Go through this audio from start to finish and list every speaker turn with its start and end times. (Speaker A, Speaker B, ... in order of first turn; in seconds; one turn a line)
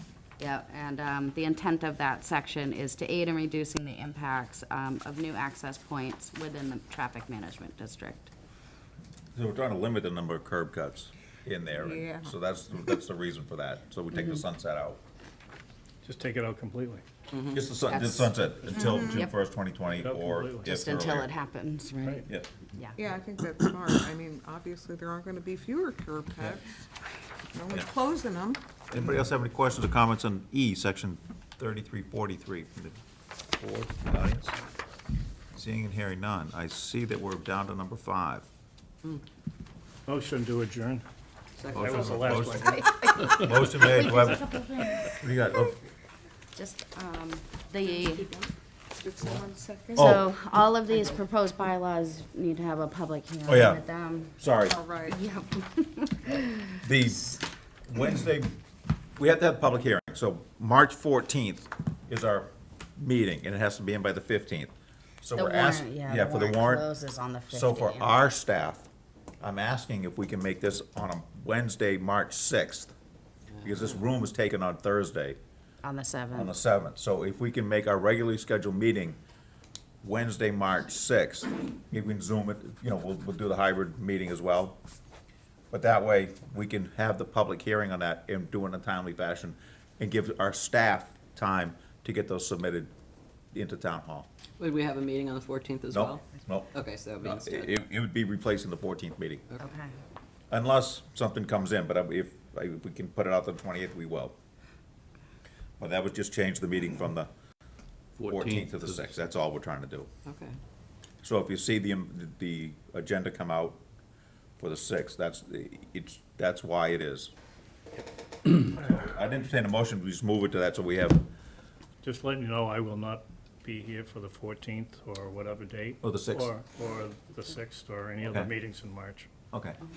Speaker A: 0.4-8.3
Speaker B: 9.3-15.0
Speaker C: 11.8-12.3
Speaker D: 16.0-17.0
Speaker E: 17.3-18.3
Speaker B: 17.5-21.3
Speaker C: 18.8-19.2
Speaker A: 18.9-19.3
Speaker D: 19.9-20.7
Speaker A: 20.7-23.0
Speaker C: 23.0-26.7
Speaker C: 27.5-28.6
Speaker B: 28.9-33.0
Speaker B: 33.6-34.5
Speaker B: 35.5-38.5
Speaker D: 40.1-41.0
Speaker E: 41.6-42.7
Speaker B: 41.7-44.5
Speaker D: 41.7-43.6
Speaker A: 42.8-45.2
Speaker B: 45.0-45.8
Speaker A: 46.5-48.3
Speaker C: 49.0-50.1
Speaker B: 50.0-50.3
Speaker A: 50.0-54.4
Speaker B: 53.5-53.8
Speaker B: 54.4-54.8
Speaker C: 54.7-55.2
Speaker A: 55.1-57.4
Speaker B: 56.8-57.3
Speaker B: 57.9-58.6
Speaker B: 59.2-66.9
Speaker A: 65.3-68.3
Speaker B: 67.5-68.9
Speaker B: 69.4-72.9
Speaker B: 73.6-75.4
Speaker A: 75.8-76.5
Speaker B: 76.3-79.2
Speaker B: 80.0-84.8
Speaker B: 85.7-92.9
Speaker B: 93.5-94.3
Speaker E: 94.6-97.8
Speaker B: 95.9-99.4
Speaker A: 99.6-99.9
Speaker B: 100.5-104.4
Speaker B: 105.8-107.3
Speaker E: 108.2-109.0
Speaker B: 108.3-110.1
Speaker E: 110.3-110.6
Speaker B: 111.2-113.8
Speaker B: 114.6-117.3
Speaker B: 118.6-121.3
Speaker D: 122.0-129.3
Speaker B: 126.0-126.5
Speaker B: 128.2-128.5
Speaker B: 129.5-129.8